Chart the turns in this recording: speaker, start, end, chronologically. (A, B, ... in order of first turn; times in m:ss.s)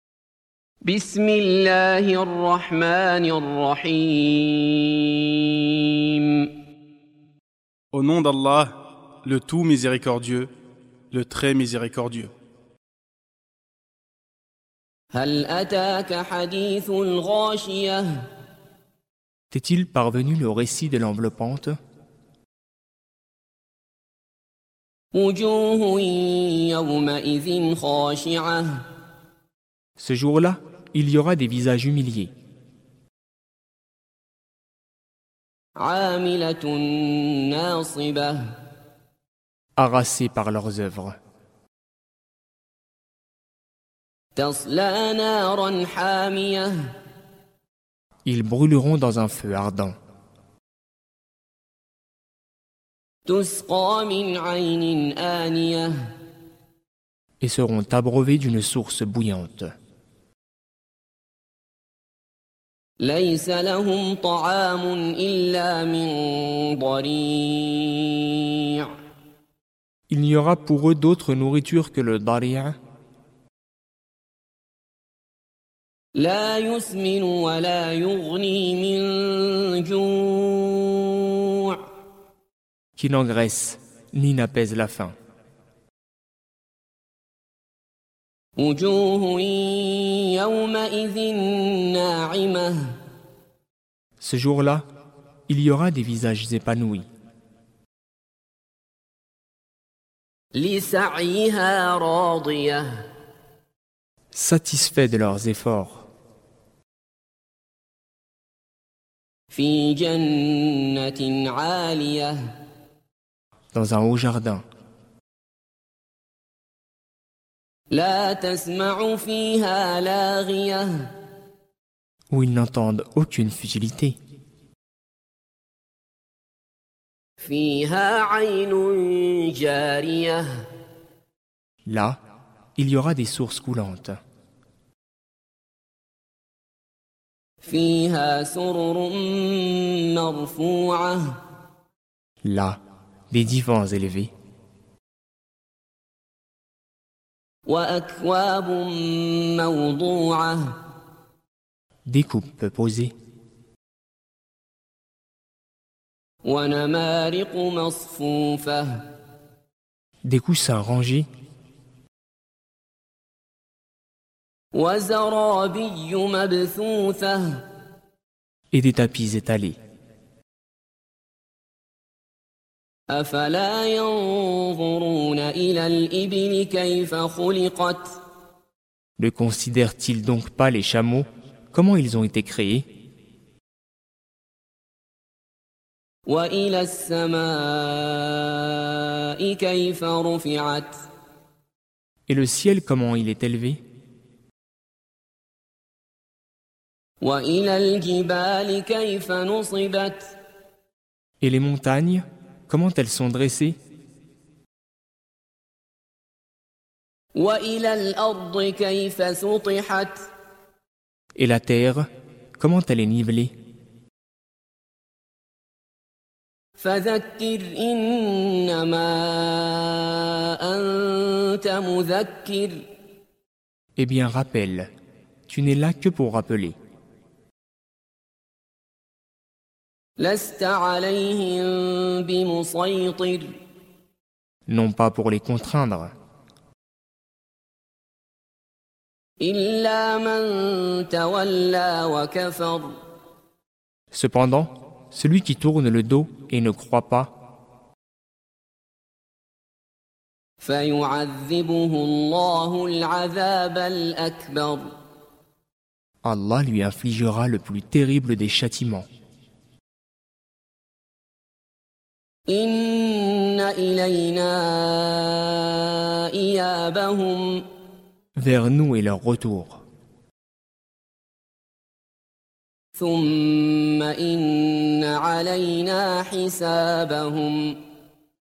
0:00.8-0:06.5 A
0:07.9-0:10.5 B
0:11.1-0:12.3 B
0:15.1-0:18.2 A
0:19.5-0:21.8 C
0:25.1-0:28.8 A
0:30.0-0:32.3 C
0:35.8-0:38.4 A
0:39.8-0:41.2 C
0:44.4-0:46.9 A
0:48.2-0:49.9 C
0:53.2-0:56.0 A
0:57.4-0:59.7 C
1:03.0-1:08.9 A
1:10.1-1:12.8 C
1:16.1-1:21.8 A
1:23.0-1:25.1 C
1:28.6-1:32.9 A
1:34.2-1:34.8 C
1:35.5-1:37.1 C
1:40.5-1:42.9 A
1:44.3-1:46.0 C
1:49.5-1:52.5 A
1:53.7-1:54.6 C
1:57.9-2:01.1 A
2:02.3-2:04.2 C
2:07.4-2:10.6 A
2:11.8-2:12.2 C
2:12.8-2:14.2 C
2:17.6-2:21.4 A
2:22.4-2:22.8 C
2:23.3-2:24.3 C
2:27.6-2:30.8 A
2:32.0-2:33.1 C
2:36.4-2:39.0 A
2:40.2-2:41.3 C
2:44.7-2:47.6 A
2:48.7-2:49.8 C
2:53.1-2:58.2 A
2:59.2-3:02.9 C
3:06.2-3:11.0 A
3:12.3-3:13.8 C
3:17.2-3:20.3 A
3:21.4-3:23.8 C
3:27.4-3:30.1 A
3:31.4-3:33.5 C
3:36.8-3:42.9 A
3:44.0-3:44.9 C
3:45.5-3:46.8 C
3:50.2-3:53.6 A
3:54.7-3:56.1 C
3:59.4-4:03.0 A
4:04.1-4:07.3 C
4:10.6-4:14.9 A
4:16.2-4:19.0 C
4:22.5-4:27.6 A
4:28.4-4:29.8 C
4:32.9-4:37.8 A